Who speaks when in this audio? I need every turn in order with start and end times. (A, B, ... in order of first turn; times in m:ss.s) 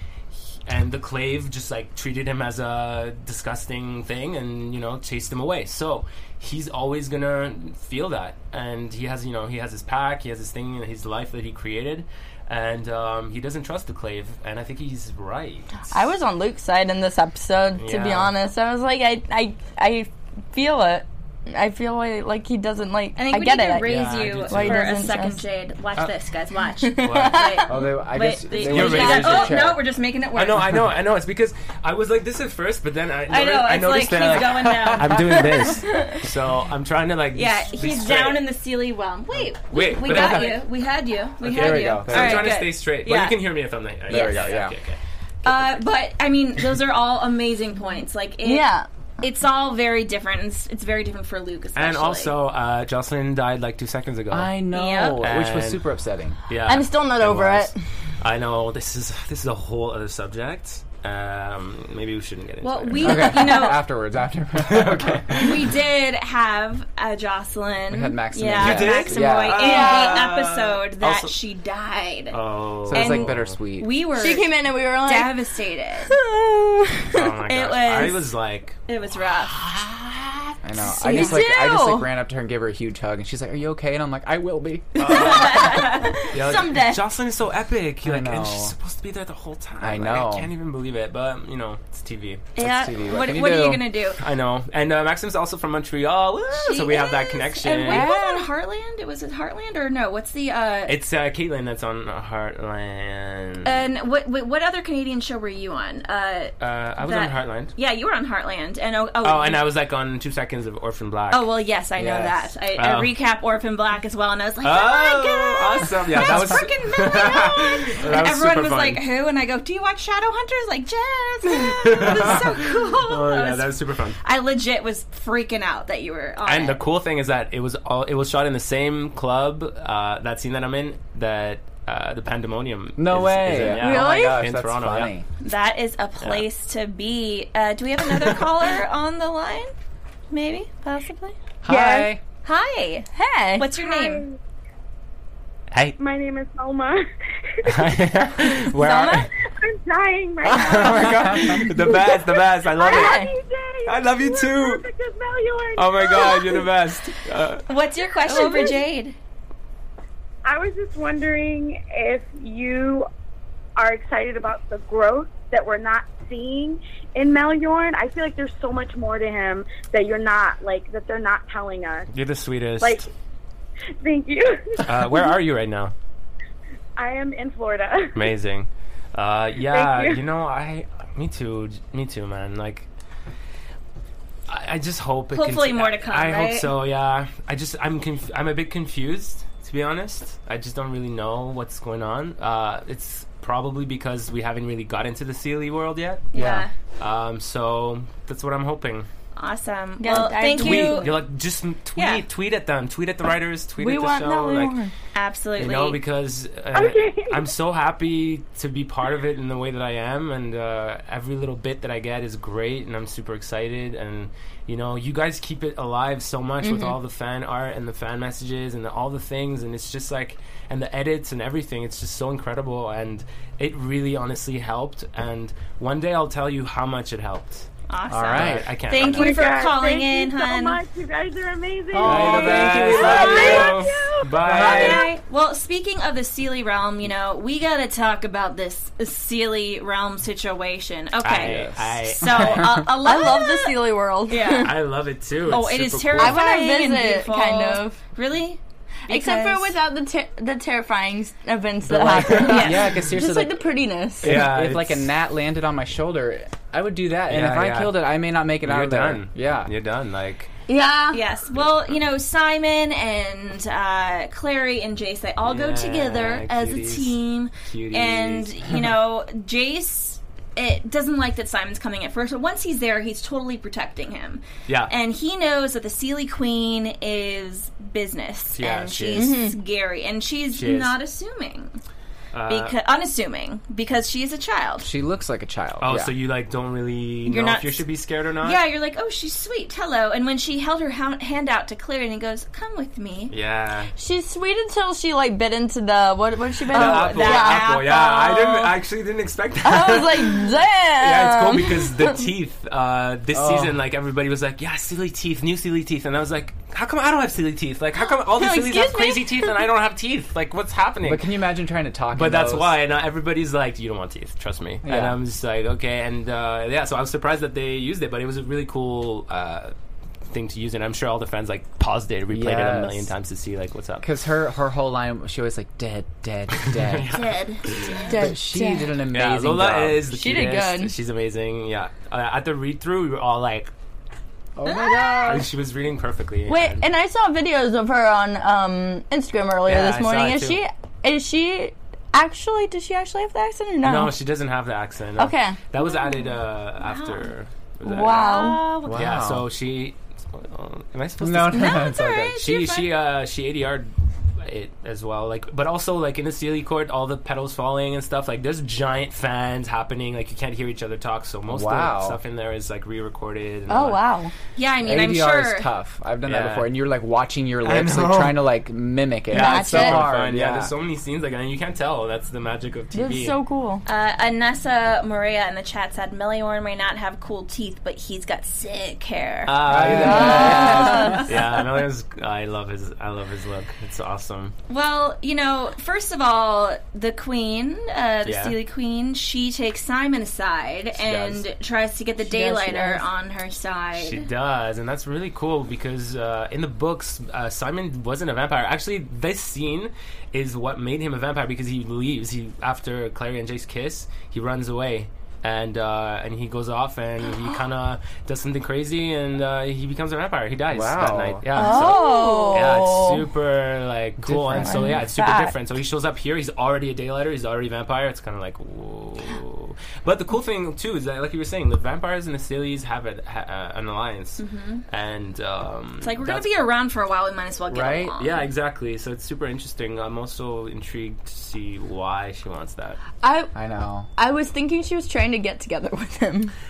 0:00.7-0:16.0 A
0:15.9-0:23.9 B
0:17.8-0:18.3 A
0:23.2-0:30.7 C
0:23.8-0:24.8 A
0:24.5-0:25.4 B
0:26.8-0:27.7 B
0:27.0-0:27.6 A
0:27.7-0:29.8 D
0:28.5-0:29.6 A
0:30.3-0:38.4 A
0:33.3-0:35.2 C
0:35.8-0:36.2 B
0:37.3-0:43.4 C
0:39.4-0:40.6 A
0:41.4-0:45.7 A
0:41.4-0:42.6 D
0:44.1-0:44.7 D
0:44.1-0:44.5 C
0:45.4-0:48.7 C
0:48.4-0:48.8 B
0:49.2-0:52.3 C
0:51.8-0:54.5 A
0:54.3-0:56.4 D
0:54.7-0:55.2 C
0:55.2-0:55.8 A
0:56.5-1:03.4 A
0:56.7-0:57.8 B
1:02.6-1:03.8 C
1:03.0-1:05.5 D
1:04.6-1:05.6 A
1:05.3-1:12.4 C
1:07.9-1:09.6 D
1:08.5-1:11.3 A
1:09.6-1:10.2 B
1:12.3-1:13.5 A
1:12.9-1:13.9 D
1:12.9-1:16.2 C
1:14.1-1:15.4 B
1:16.0-1:17.2 B
1:17.1-1:18.8 A
1:17.2-1:18.3 C
1:18.9-1:19.6 C
1:19.5-1:20.6 A
1:20.6-1:25.0 D
1:20.9-1:22.1 B
1:21.1-1:21.4 A
1:25.0-1:32.5 A
1:25.0-1:26.2 C
1:25.2-1:27.0 B
1:28.0-1:28.7 D
1:29.8-1:30.5 D
1:32.6-1:34.2 C
1:32.6-1:33.8 D
1:34.2-1:38.1 A
1:36.6-1:41.0 C
1:38.0-1:38.4 B
1:40.9-1:43.7 A
1:43.6-1:49.6 C
1:46.6-1:47.7 A
1:49.2-1:51.5 A
1:51.3-2:06.8 C
1:52.0-1:52.3 D
1:52.7-1:53.1 A
1:54.6-1:59.0 A
2:01.5-2:04.2 A
2:06.4-2:15.1 A
2:13.0-2:15.2 D
2:13.6-2:14.4 B
2:15.4-2:19.7 C
2:20.3-2:21.4 C
2:21.6-2:22.2 D
2:22.0-2:24.2 C
2:23.1-2:23.7 B
2:23.8-2:24.4 E
2:25.7-2:26.0 A
2:26.0-2:27.0 E
2:27.6-2:27.8 E
2:27.6-2:29.3 A
2:28.8-2:29.2 B
2:29.4-2:36.7 E
2:30.5-2:33.2 A
2:30.5-2:31.6 D
2:32.8-2:33.3 B
2:33.8-2:34.8 A
2:35.8-2:37.6 A
2:37.7-2:39.2 C
2:38.2-2:38.8 E
2:40.4-2:43.1 E
2:43.8-2:52.1 E
2:52.1-2:53.1 A
2:52.8-2:53.1 E
2:54.0-2:55.1 E
2:54.8-2:55.9 A
2:57.0-2:58.2 E
2:58.1-3:02.9 A
2:59.7-3:00.2 E
3:04.5-3:16.3 A
3:05.3-3:06.7 C
3:16.3-3:16.7 C
3:16.3-3:16.6 D
3:17.0-3:19.1 A
3:19.4-3:21.2 C
3:20.0-3:21.2 B
3:20.1-3:24.8 A
3:22.0-3:22.2 C
3:23.8-3:24.9 B
3:25.1-3:26.0 C
3:25.6-3:47.7 A
3:26.7-3:27.4 E
3:36.6-3:36.9 B
3:47.9-3:50.8 C
3:48.1-3:48.8 D
3:48.3-3:49.5 A
3:49.0-3:54.3 E
3:51.9-3:53.8 D
3:52.0-3:55.1 A
3:53.0-3:53.7 C
3:53.3-3:53.6 B
3:54.4-3:55.0 D
3:54.5-4:04.7 C
4:01.2-4:02.8 A
4:01.4-4:01.8 D
4:02.3-4:02.8 D
4:03.0-4:04.7 B
4:04.5-4:06.4 A
4:05.4-4:09.8 C
4:06.2-4:08.0 B
4:09.1-4:14.4 B
4:11.9-4:12.8 A
4:11.9-4:13.6 D
4:12.4-4:12.8 C
4:14.2-4:19.7 D
4:14.2-4:15.1 A
4:17.3-4:20.5 A
4:20.7-4:21.2 B
4:21.1-4:41.8 C
4:25.4-4:28.8 A
4:34.7-4:34.9 A
4:38.5-4:39.3 A
4:39.1-4:39.5 B
4:40.5-4:41.0 A
4:42.3-4:42.7 A
4:42.5-4:44.9 C
4:44.8-4:46.1 D
4:45.8-4:48.6 A
4:47.2-4:47.8 C
4:48.4-4:53.3 C
4:53.3-4:53.9 A
4:54.0-4:58.7 B
4:56.7-5:11.3 A
4:56.7-4:58.4 C
4:59.6-5:02.2 B
5:03.3-5:03.8 D
5:08.0-5:09.6 B
5:11.0-5:12.7 D
5:12.1-5:19.7 A
5:14.8-5:15.2 D
5:20.3-5:24.1 A
5:22.3-5:23.1 D
5:24.0-5:27.1 D
5:26.7-5:28.0 A
5:27.1-5:28.1 C
5:28.0-5:28.9 B
5:28.1-5:30.0 D
5:29.1-5:33.7 A
5:30.1-5:30.9 B
5:34.6-5:35.4 D
5:34.6-5:35.4 B
5:35.2-5:36.8 A
5:36.5-5:44.1 B
5:39.7-5:40.6 A
5:43.8-6:04.0 A
5:45.2-5:45.6 B
5:45.8-5:47.3 C
5:47.8-5:48.6 B
5:48.0-5:49.0 C
5:48.8-5:49.5 D
5:51.2-5:52.4 D
5:51.5-5:52.9 C
6:01.5-6:02.2 D
6:03.7-6:04.3 B
6:04.6-6:05.7 C
6:04.8-6:10.7 D
6:06.2-6:06.7 A
6:07.6-6:08.4 A
6:09.3-6:10.1 B
6:09.3-6:13.4 A
6:12.9-6:13.8 B
6:13.8-6:21.5 C
6:19.4-6:24.5 A
6:19.6-6:21.2 D
6:19.9-6:21.3 B
6:24.7-6:34.3 C
6:28.2-6:28.6 A
6:31.0-6:31.4 A
6:32.2-6:33.0 B
6:33.9-7:06.5 A
6:50.7-6:51.5 D
6:51.5-6:53.2 B
6:51.6-6:52.6 C
6:54.2-6:55.0 D
6:54.6-6:55.5 B
7:04.4-7:04.8 C
7:06.0-7:08.4 C
7:07.7-7:08.1 D
7:08.2-7:13.0 A
7:13.2-7:13.5 B
7:13.5-7:14.1 D
7:14.2-7:16.5 B